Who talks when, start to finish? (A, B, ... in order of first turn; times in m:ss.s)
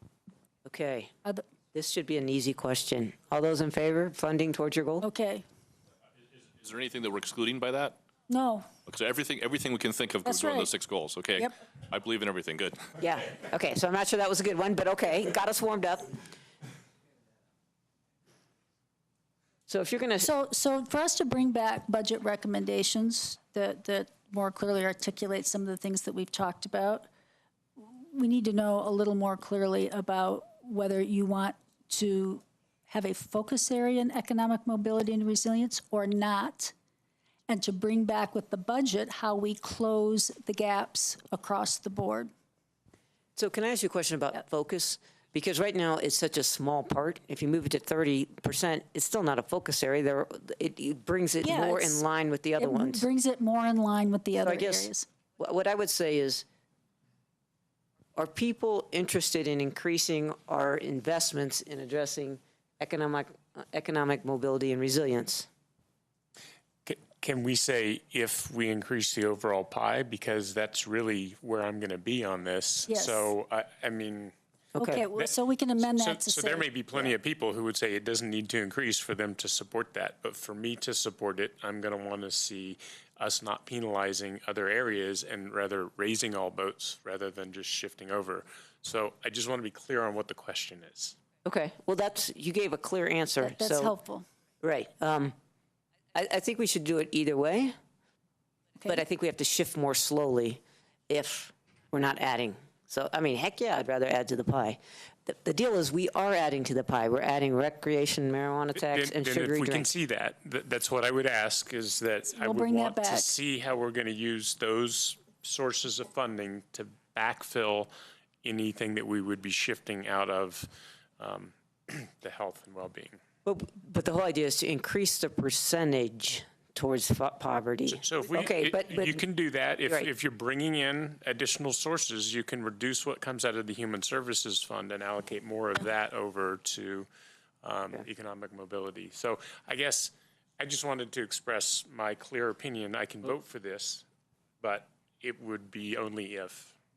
0:00.7-0:01.1 A
0:01.7-0:05.1 A
0:05.0-0:05.5 B
0:06.5-0:08.0 C
0:08.3-0:08.7 B
0:08.9-0:12.8 C
0:10.2-0:10.7 B
0:13.0-0:16.2 A
0:19.7-0:20.3 A
0:20.2-0:27.1 B
0:27.8-0:36.7 B
0:37.5-0:42.3 B
0:43.4-0:53.1 A
0:51.4-0:52.0 B
0:52.6-0:55.1 B
0:54.4-0:56.4 A
0:58.2-1:05.5 A
1:06.9-1:14.3 D
1:12.9-1:13.3 B
1:14.8-1:15.0 A
1:14.8-1:17.1 B
1:15.2-1:31.2 D
1:31.4-1:33.9 A
1:33.4-1:34.3 B
1:34.6-1:35.4 A
1:36.2-1:37.8 A
1:38.9-1:49.9 A
1:48.8-1:57.9 D
1:52.3-1:53.3 B
1:58.4-2:03.2 D
2:03.4-2:09.2 A
2:07.9-2:17.1 D
2:17.6-2:24.0 D
2:24.6-2:26.8 D